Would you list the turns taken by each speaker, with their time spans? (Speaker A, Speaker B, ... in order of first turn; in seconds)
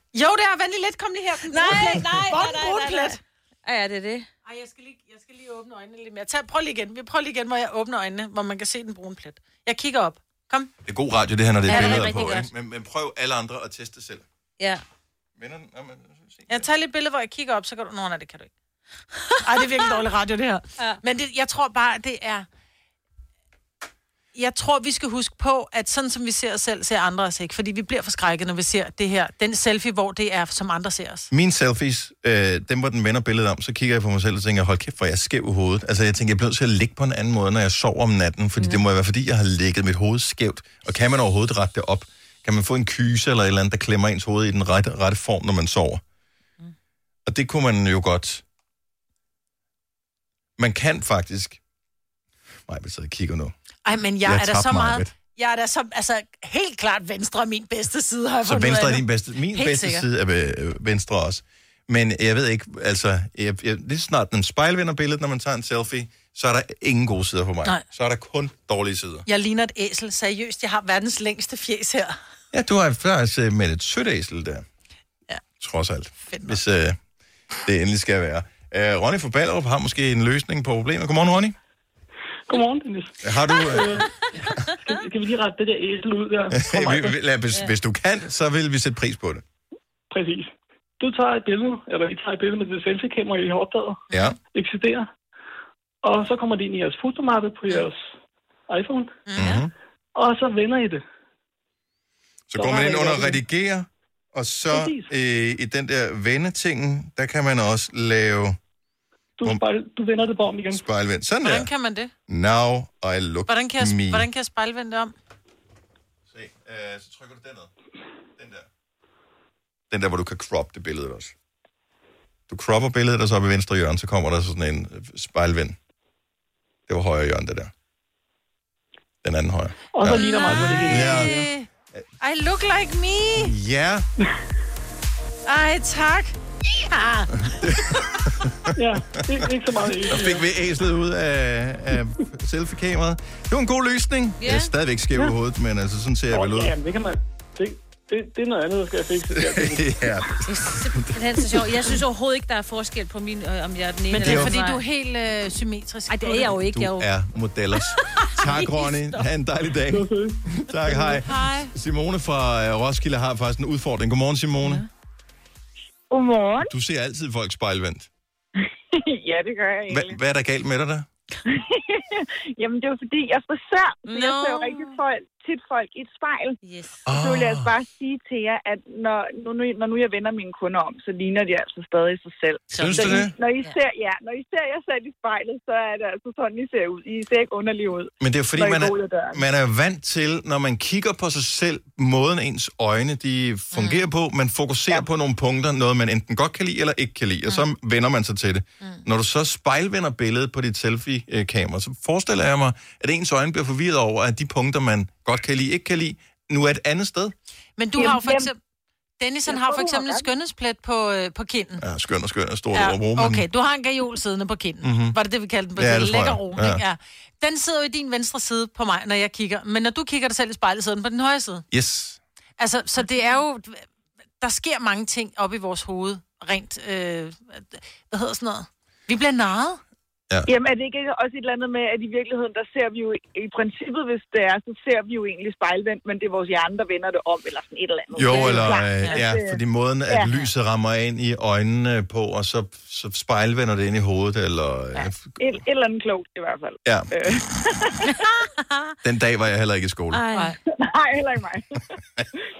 Speaker A: 0.1-3.2, 4.4-10.7, 11.7-12.1, 16.5-18.5, 19.4-22.4, 24.3-31.3, 53.9-60.1, 69.2-72.1, 76.3-76.5, 94.1-94.3, 99.3-99.6, 111.4-112.1, 113.5-115.1, 130.1-131.7, 132.2-133.5, 135.4-136.3, 136.9-137.2, 154.1-156.7, 161.0-161.7, 193.7-194.1, 207.8-208.5, 209.2-211.8, 212.7-221.7, 222.6-223.8, 224.4-229.8, 238.3-239.2
Speaker B: 1.4-4.3, 11.7-12.5, 19.2-20.0, 144.4-144.7, 150.4-154.8, 156.1-157.1, 157.9-159.3, 174.1-175.0, 176.6-177.1, 182.7-183.8, 248.6-248.9, 250.1-250.6
Speaker C: 10.8-14.2, 15.4-16.6, 31.3-46.0, 47.2-48.4, 50.6-51.6, 52.7-53.5, 54.2-55.1, 58.4-69.2, 72.5-74.6, 75.6-77.0, 77.6-81.5, 83.2-84.1, 86.5-89.4, 94.1-94.3, 99.3-99.7, 102.5-108.6, 110.7-111.7, 112.3-114.3, 116.3-117.7, 118.4-118.7, 119.9-121.3, 122.5-125.8, 126.9-127.7, 129.2-131.3, 133.4-134.1, 137.4-138.7, 140.1-146.8, 149.3-151.1, 154.1-154.6, 156.6-164.8, 166.6-168.1, 169.9-171.1, 177.0-177.7, 182.7-183.3, 188.2-207.3, 211.8-213.4, 214.8-215.2, 215.8-216.8, 221.7-222.2, 238.1-245.5, 246.8-247.1, 249.0-250.2
Speaker D: 82.5-84.1, 84.8-87.2, 90.1-95.1, 96.0-98.1, 98.7-99.1, 100.2-101.0, 102.5-103.4, 104.7-105.1, 109.4-110.8, 129.9-131.5, 138.7-140.5, 146.3-150.3, 159.9-161.2
Speaker E: 166.1-166.7, 168.6-170.2, 171.5-176.6, 177.1-189.4, 208.0-208.5, 209.5-210.2, 230.4-240.3, 245.4-247.9, 250.8-251.8